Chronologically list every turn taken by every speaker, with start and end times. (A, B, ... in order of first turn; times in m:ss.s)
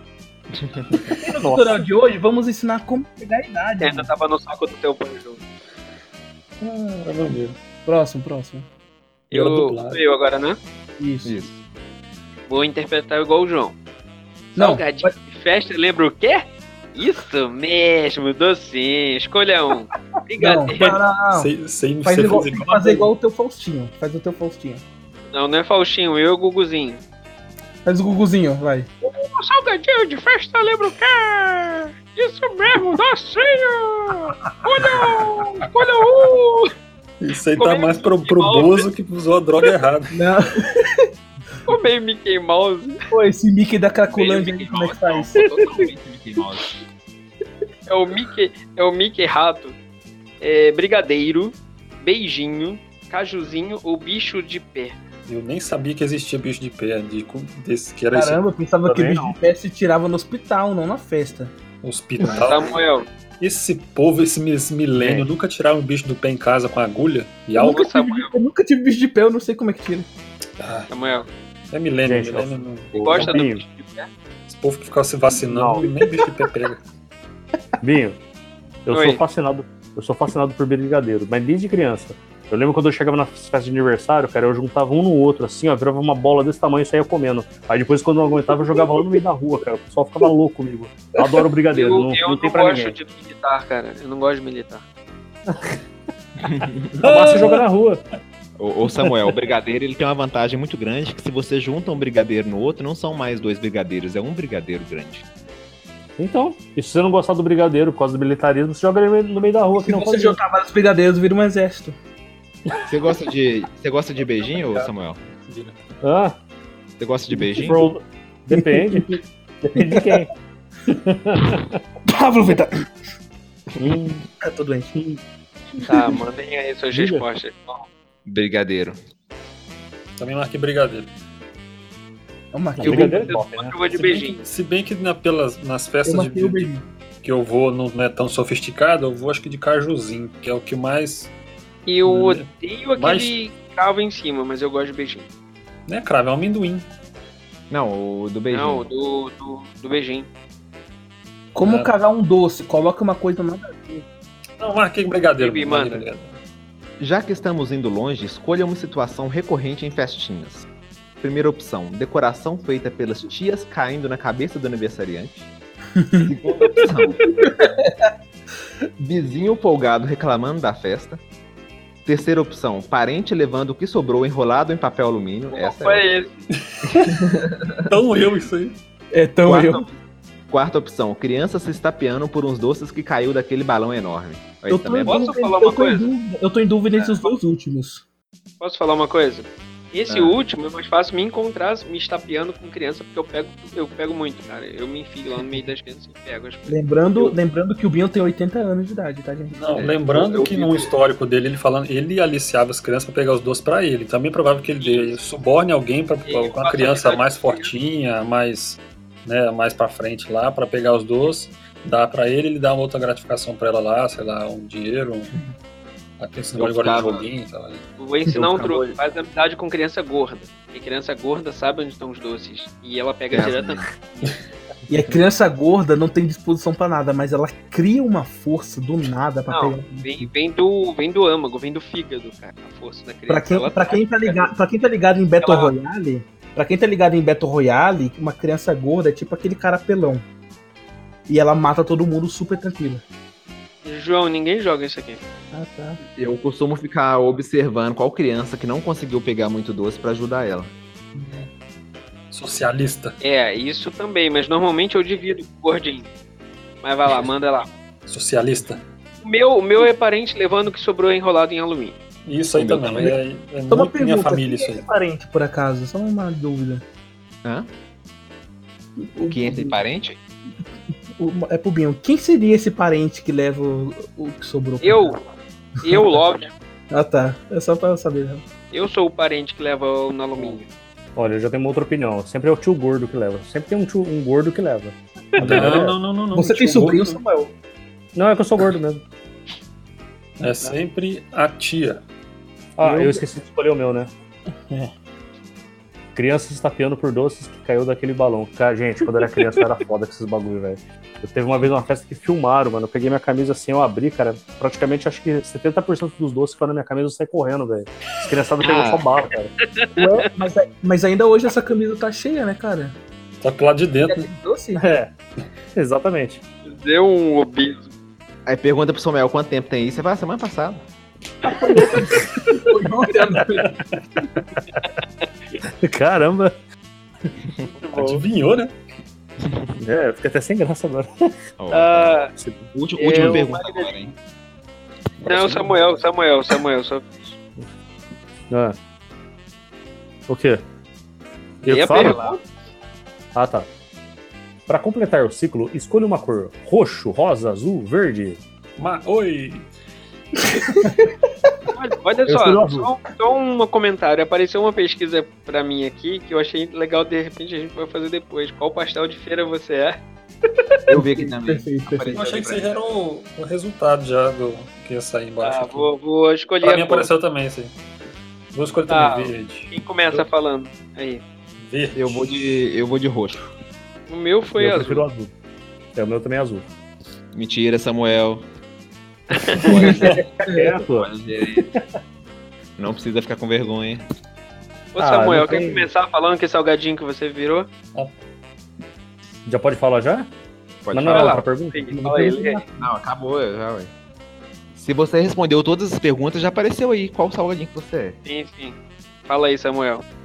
0:00.5-0:01.0 A
0:01.2-0:04.1 B
0:01.3-0:01.8 C
0:03.8-0:05.4 D
0:06.6-0:07.6 E
0:07.8-0:08.6 B
0:09.3-0:10.0 E
0:09.3-0:10.6 D
0:11.0-0:11.4 B
0:11.2-0:11.6 A
0:12.5-0:13.8 D
0:14.5-0:21.0 D
0:14.6-0:15.1 B
0:20.4-0:21.5 B
0:21.3-0:23.1 E
0:22.0-0:24.8 B
0:25.3-0:27.0 D
0:27.8-0:28.9 B
0:29.0-0:36.7 D
0:37.2-0:40.2 E
0:37.6-0:38.9 D
0:40.1-0:41.0 B
0:41.7-0:43.0 D
0:43.1-0:45.5 B
0:44.1-0:46.7 A
0:47.9-0:49.7 D
0:50.4-0:55.0 D
0:55.3-0:58.4 E
0:58.1-1:01.5 B
0:58.8-0:59.4 C
1:01.8-1:02.8 E
1:02.3-1:03.1 D
1:03.4-1:07.8 E
1:05.0-1:05.3 C
1:07.5-1:10.1 B
1:07.6-1:08.3 D
1:10.6-1:10.9 E
1:10.9-1:11.3 D
1:11.7-1:13.4 E
1:12.0-1:13.6 C
1:13.0-1:14.1 D
1:14.5-1:16.8 E
1:15.4-1:15.9 C
1:15.9-1:16.2 B
1:17.8-1:18.2 C
1:18.8-1:32.9 C
1:18.9-1:19.2 D
1:28.5-1:29.0 B
1:31.2-1:31.4 B
1:31.7-1:34.8 D
1:35.5-1:35.8 C
1:36.4-1:36.8 A
1:36.6-1:38.0 C
1:37.0-1:37.6 E
1:38.6-1:45.2 A
1:46.2-1:50.4 C
1:49.8-1:51.9 B
1:52.9-1:55.2 A
1:54.4-1:54.9 E
1:55.5-1:55.8 E
1:56.0-1:56.4 C
1:57.0-1:57.9 A
1:57.3-2:00.3 C
1:58.5-1:59.1 B
1:59.7-2:00.2 B
2:00.9-2:01.8 C
2:02.1-2:02.7 B
2:03.8-2:04.2 C
2:04.4-2:04.9 B
2:04.9-2:05.2 C
2:05.8-2:07.9 D
2:06.9-2:07.2 C
2:08.2-2:09.0 A
2:10.2-2:11.1 E
2:12.5-2:13.4 B
2:12.8-2:14.4 C
2:13.0-2:14.4 D
2:14.4-2:16.7 E
2:16.0-2:16.9 B
2:17.2-2:21.3 E
2:21.8-2:25.3 D
2:22.0-2:23.4 E
2:25.9-2:26.8 E
2:27.7-2:28.8 A
2:28.5-2:30.3 D
2:31.5-2:34.0 B
2:31.6-2:31.9 E
2:34.6-2:36.4 E
2:35.4-2:36.0 D
2:37.0-2:40.6 A
2:41.2-2:45.5 A
2:46.0-2:46.3 B
2:46.2-2:47.2 A
2:47.4-2:48.1 B
2:49.0-2:51.2 A
2:52.0-2:56.0 A
2:55.5-2:56.4 D
2:56.9-2:57.7 A
2:57.9-2:58.8 E
2:59.1-2:59.9 B
2:59.4-2:59.9 A
3:00.5-3:05.3 A
3:04.7-3:08.0 B
3:05.1-3:06.1 D
3:07.0-3:07.3 D
3:08.6-3:17.4 D
3:10.1-3:10.4 A
3:16.7-3:19.6 B
3:19.5-3:35.3 E
3:19.7-3:20.9 A
3:24.8-3:25.3 D
3:26.2-3:27.7 D
3:36.2-3:37.8 E
3:36.6-3:37.3 A
3:38.0-3:44.3 D
3:38.5-3:38.9 A
3:43.3-3:43.9 A
3:44.9-3:50.3 B
3:49.5-3:54.5 D
3:53.3-4:00.2 B
3:55.4-3:55.7 D
4:01.3-4:03.0 B
4:03.8-4:05.2 D
4:05.5-4:06.0 B
4:06.2-4:10.7 A
4:11.1-4:11.5 E
4:12.3-4:13.2 E
4:13.2-4:16.1 D
4:16.8-4:17.7 D
4:18.1-4:18.8 E
4:19.2-4:22.0 D
4:22.2-4:24.8 E
4:22.6-4:23.2 A
4:23.7-4:26.8 B
4:27.4-4:27.7 A
4:29.0-4:29.8 B
4:29.3-4:30.2 A
4:31.2-4:35.2 B
4:34.8-4:35.2 D
4:35.8-4:36.5 D
4:35.8-4:36.1 B
4:36.9-4:38.4 B
4:38.7-4:40.7 D
4:41.2-4:46.0 C
4:45.4-4:47.2 E
4:46.3-4:47.5 B
4:48.1-4:49.0 C
4:50.4-4:52.0 E
4:52.8-4:54.1 C
4:56.1-5:09.5 C
5:08.6-5:09.0 A
5:09.7-5:10.2 D
5:10.0-5:13.0 B
5:13.4-5:14.3 E
5:14.0-5:14.8 B
5:14.8-5:15.1 C
5:15.8-5:16.4 C
5:16.6-5:17.9 D
5:18.4-5:20.8 A
5:21.4-5:23.7 B
5:25.8-5:26.6 C
5:27.9-5:28.7 E
5:29.8-5:31.3 C
5:31.6-5:34.1 A
5:31.7-5:32.3 D
5:32.4-5:32.7 C
5:33.0-5:34.0 D
5:35.2-5:37.3 D
5:35.3-5:35.7 A
5:38.5-5:38.8 C
5:40.3-5:40.6 C
5:41.6-5:42.2 C
5:41.6-5:42.4 D
5:41.9-5:42.4 A
5:43.3-5:43.7 C
5:44.7-5:48.4 C
5:48.8-5:49.7 E
5:50.6-5:51.1 B
5:50.6-5:50.9 E
5:51.7-6:00.0 D
5:52.3-5:52.9 C
6:00.9-6:02.2 B
6:00.9-6:02.8 A
6:02.1-6:05.9 E
6:05.4-6:07.1 D
6:06.6-6:07.7 E
6:08.5-6:10.2 E
6:08.9-6:11.2 D
6:11.6-6:12.4 E
6:12.0-6:13.5 A
6:14.1-6:15.1 D
6:14.6-6:15.3 C
6:16.0-6:16.7 C
6:17.3-6:18.5 A
6:19.3-6:20.1 D
6:19.6-6:21.7 A
6:19.6-6:20.7 B
6:20.4-6:21.1 C
6:22.8-6:24.0 A
6:24.9-6:27.7 D
6:25.0-6:25.9 C
6:29.4-6:30.3 C
6:30.8-6:31.4 A
6:30.9-6:32.4 C
6:31.0-6:32.6 D
6:32.0-6:32.7 B
6:32.8-6:33.9 A
6:34.7-6:38.2 A
6:38.2-6:40.0 D